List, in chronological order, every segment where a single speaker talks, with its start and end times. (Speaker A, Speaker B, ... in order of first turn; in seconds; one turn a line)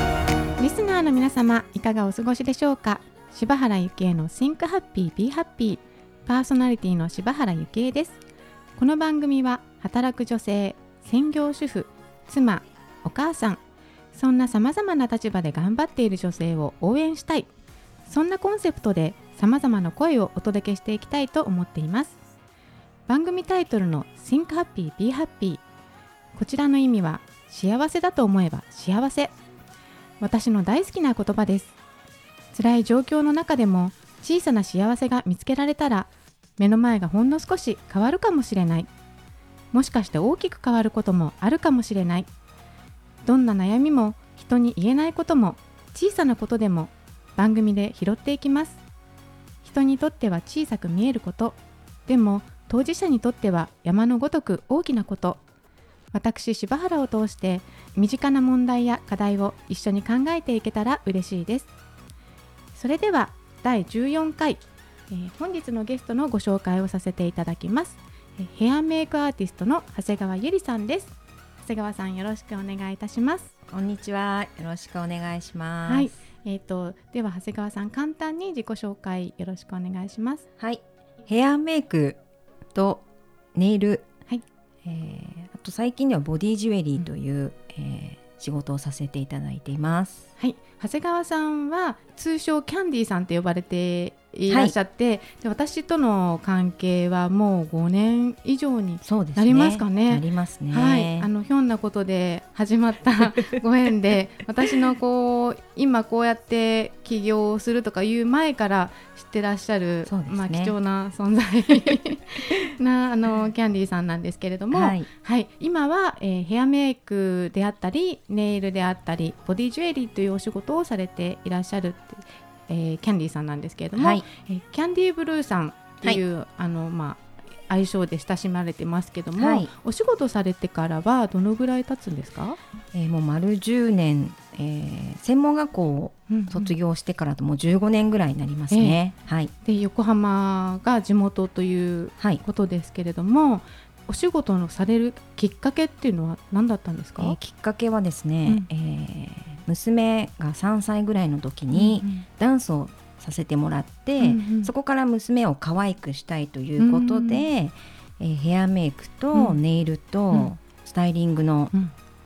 Speaker A: 0.6-8.2
Speaker A: 8.8-13.6
Speaker A: 14.1-17.5
Speaker A: 18.1-22.2
Speaker A: 23.1-25.6
Speaker A: 26.4-29.3
Speaker A: 30.2-31.8
Speaker A: 32.5-38.9
Speaker A: 39.7-42.3
Speaker A: 43.2-48.8
Speaker A: 49.6-55.4
Speaker A: 56.1-61.7
Speaker A: 62.8-73.5
Speaker B: 73.7-76.1
Speaker A: 75.9-80.5
Speaker B: 80.6-82.2
Speaker B: 82.8-83.0
Speaker B: 83.5-84.1
Speaker B: 84.8-90.3
Speaker A: 90.4-132.6
Speaker B: 94.5-94.7
Speaker B: 99.0-101.3
Speaker B: 110.1-110.7
Speaker B: 114.7-115.1
Speaker B: 124.0-124.2
Speaker B: 129.4-129.7
Speaker B: 132.9-139.5
Speaker A: 136.3-136.7
Speaker A: 138.7-139.0
Speaker A: 139.7-147.4
Speaker B: 147.2-161.7
Speaker A: 151.7-152.3
Speaker A: 154.2-154.7
Speaker A: 156.8-157.5
Speaker A: 159.3-159.6